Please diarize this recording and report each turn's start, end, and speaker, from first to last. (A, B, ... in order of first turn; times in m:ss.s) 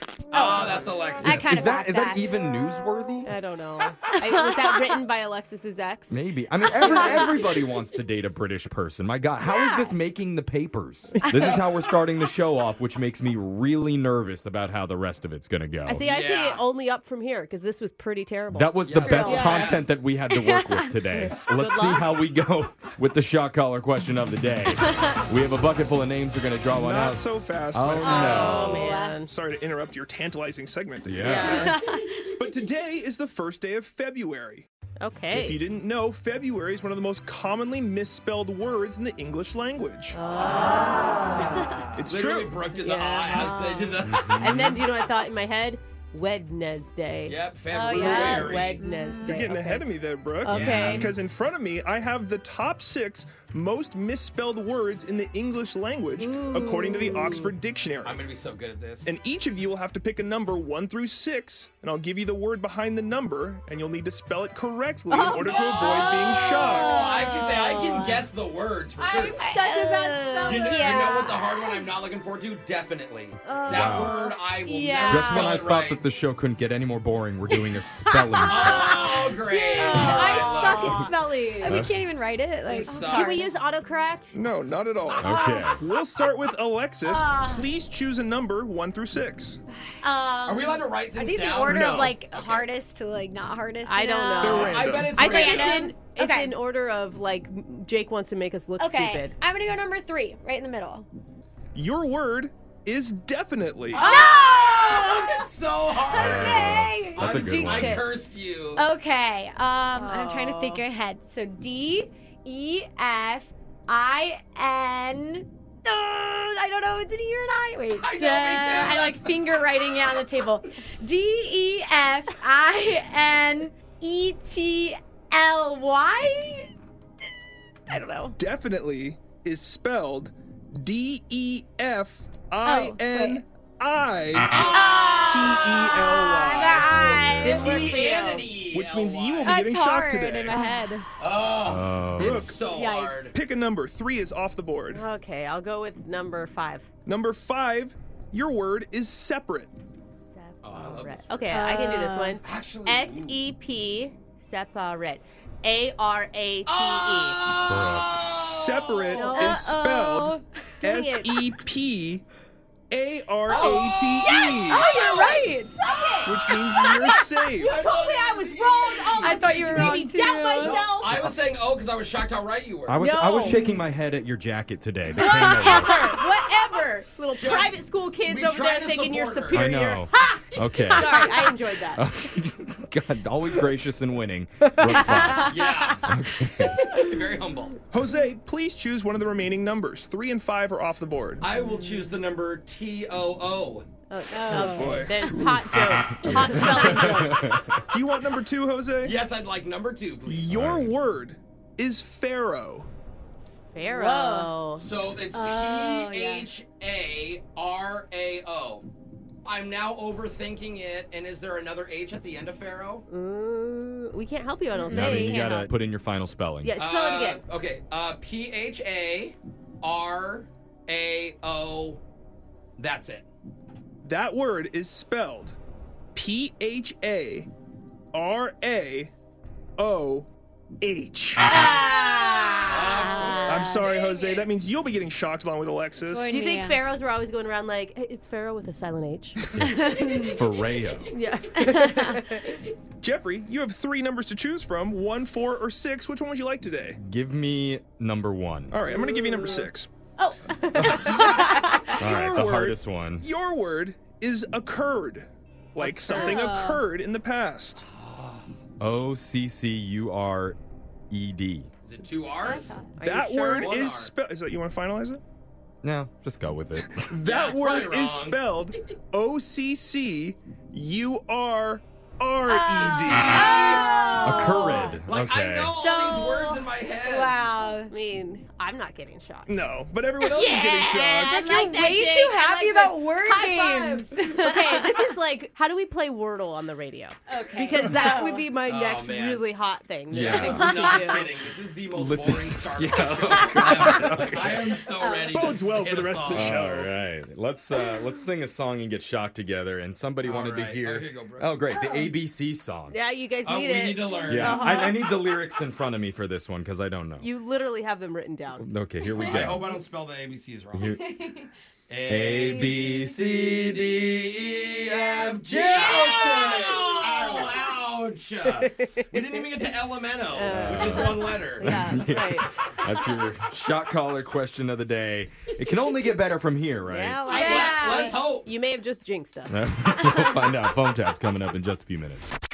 0:00.3-0:01.6 A
0:00.3-0:01.0 B
0:01.2-0:02.4 C
0:01.2-0:03.3 D
0:03.2-0:07.6 B
0:04.1-0:04.8 C
0:06.1-0:16.0 D
0:06.8-0:07.4 C
0:09.4-0:09.9 C
0:15.9-0:19.8 B
0:16.0-0:16.6 A
0:18.5-0:28.9 D
0:18.8-0:19.8 A
0:19.0-0:19.7 C
0:20.3-0:21.2 C
0:21.4-0:22.2 B
0:26.7-0:31.7 E
0:28.0-0:29.2 C
0:28.0-0:29.3 B
0:31.0-0:31.8 D
0:31.2-0:31.8 B
0:31.4-0:32.2 C
0:32.3-0:34.7 E
0:35.0-0:35.6 B
0:35.3-0:40.2 E
0:40.1-0:41.6 B
0:41.6-0:44.5 A
0:41.9-0:42.6 E
0:42.7-0:49.9 B
0:44.0-0:44.8 D
0:47.2-0:48.8 A
0:47.7-0:49.3 C
0:49.2-0:58.2 E
0:50.4-0:51.1 A
0:50.5-0:51.1 B
0:50.5-0:51.0 D
0:56.2-0:57.5 B
0:58.0-0:59.1 A
0:59.0-1:07.2 E
1:05.1-1:05.6 B
1:05.3-1:09.4 A
1:05.8-1:08.3 C
1:09.0-1:11.3 B
1:09.3-1:11.9 C
1:10.4-1:16.0 A
1:13.4-1:14.4 B
1:13.7-1:14.1 D
1:14.6-1:15.6 C
1:15.0-1:19.0 D
1:17.5-1:23.5 C
1:18.4-1:21.1 A
1:18.6-1:21.8 B
1:21.7-1:21.9 D
1:22.6-1:23.5 A
1:22.9-1:24.4 B
1:24.3-1:29.6 E
1:25.1-1:25.7 A
1:25.2-1:25.8 D
1:25.3-1:25.6 C
1:27.0-1:27.7 C
1:30.0-1:36.6 C
1:30.4-1:32.7 A
1:31.6-1:32.1 E
1:33.8-1:39.4 B
1:34.4-1:35.3 E
1:34.6-1:36.0 A
1:38.8-1:41.1 C
1:41.7-1:44.1 E
1:43.9-1:44.6 B
1:44.0-1:45.4 C
1:44.3-1:48.8 A
1:46.0-1:48.1 C
1:46.1-1:48.0 D
1:48.7-2:06.7 C
1:49.9-1:50.8 B
1:58.0-1:59.3 A
2:07.9-2:08.4 C
2:08.4-2:18.0 E
2:12.6-2:13.4 C
2:14.5-2:15.2 A
2:14.7-2:17.8 C
2:17.1-2:17.6 D
2:17.4-2:19.6 A
2:17.4-2:18.5 B
2:18.7-2:20.6 E
2:19.4-2:21.1 C
2:21.2-2:23.3 A
2:21.6-2:22.5 D
2:22.1-2:22.6 E
2:22.6-2:23.3 C
2:23.3-2:25.0 E
2:24.9-2:26.9 B
2:27.0-2:29.7 E
2:30.3-2:37.5 B
2:30.6-2:33.4 A
2:31.5-2:32.4 C
2:36.6-2:39.1 A
2:37.7-2:38.2 D
2:38.2-2:42.2 E
2:39.1-2:40.4 C
2:39.1-2:39.6 B
2:40.8-2:41.4 B
2:42.9-2:44.9 E
2:43.5-2:43.8 A
2:43.5-2:45.8 C
2:43.5-2:51.2 B
2:46.2-2:47.7 E
2:46.6-2:47.2 C
2:47.6-2:50.0 A
2:49.2-2:50.8 C
2:50.6-2:53.0 A
2:52.9-2:56.0 D
2:53.0-2:53.8 B
2:53.0-2:53.8 C
2:55.2-3:02.1 B
2:55.2-2:56.0 C
2:57.3-2:59.7 A
2:59.5-3:01.3 D
3:00.8-3:01.4 C
3:01.9-3:06.9 D
3:04.9-3:06.8 C
3:05.3-3:06.2 A
3:06.8-3:07.8 A
3:07.9-3:11.5 E
3:11.4-3:13.9 A
3:14.1-3:17.6 B
3:14.3-3:15.3 C
3:14.4-3:15.8 E
3:16.2-3:17.8 D
3:16.5-3:17.0 E
3:16.8-3:17.2 A
3:17.9-3:19.2 E
3:19.0-3:20.5 A
3:20.2-3:22.9 E
3:20.5-3:20.9 D
3:23.7-3:24.8 B
3:23.8-3:24.6 C
3:24.7-3:28.9 A
3:25.3-3:26.5 C
3:29.4-3:33.0 A
3:33.1-3:35.5 B
3:34.7-3:35.7 C
3:34.9-3:36.8 D
3:36.6-3:37.4 B
3:36.8-3:42.0 A
3:42.8-3:43.2 A
3:44.0-3:45.6 E
3:46.1-3:47.5 E
3:48.1-3:49.1 E
3:49.8-3:50.3 E
3:50.8-3:51.6 E
3:51.5-3:53.9 C
3:51.7-3:52.7 B
3:52.7-3:54.4 A
3:53.4-3:56.4 E
3:56.1-3:56.8 C
3:56.3-4:00.3 B
3:59.5-4:01.1 D
3:59.6-4:00.4 C
4:01.1-4:02.6 B
4:01.7-4:02.1 C
4:03.0-4:07.0 E
4:07.0-4:08.8 D
4:08.7-4:09.9 E
4:10.2-4:12.0 C
4:10.5-4:11.8 B
4:10.8-4:17.8 E
4:12.0-4:13.2 D
4:16.1-4:16.8 C
4:17.9-4:18.4 A
4:18.8-4:20.6 D
4:21.1-4:21.7 D
4:21.8-4:22.8 A
4:22.4-4:22.9 C
4:23.0-4:23.7 B
4:23.0-4:25.2 E
4:23.5-4:24.1 A
4:25.8-4:27.1 D
4:27.0-4:33.7 E
4:27.2-4:28.4 A
4:32.4-4:35.0 C
4:32.9-4:33.8 A
4:34.2-4:35.7 D
4:35.1-4:37.3 A
4:35.7-4:36.7 B
4:37.0-4:37.9 C
4:37.8-4:51.3 B
4:39.5-4:41.4 E
4:40.4-4:44.9 C
4:47.3-4:48.5 C
4:48.5-4:49.4 A
4:50.1-4:50.7 D
4:50.1-4:56.8 A
4:50.4-4:51.2 C
4:51.9-4:54.8 D
4:53.3-4:55.5 C
4:55.3-4:56.9 E
4:56.3-5:03.0 D
5:00.2-5:01.5 A
5:02.9-5:05.2 B
5:03.4-5:04.8 A
5:04.3-5:07.3 D
5:07.2-5:08.7 B
5:08.6-5:09.7 D
5:09.0-5:09.5 C
5:09.2-5:10.9 A
5:10.7-5:11.0 D
5:10.8-5:11.5 C
5:11.9-5:21.9 A
5:12.1-5:13.5 D
5:15.5-5:16.6 D
5:17.2-5:17.5 B
5:18.5-5:19.5 B
5:20.3-5:22.5 B
5:20.5-5:27.2 D
5:26.8-5:29.6 B
5:27.2-5:28.5 A
5:27.3-5:28.2 C
5:29.5-5:32.3 D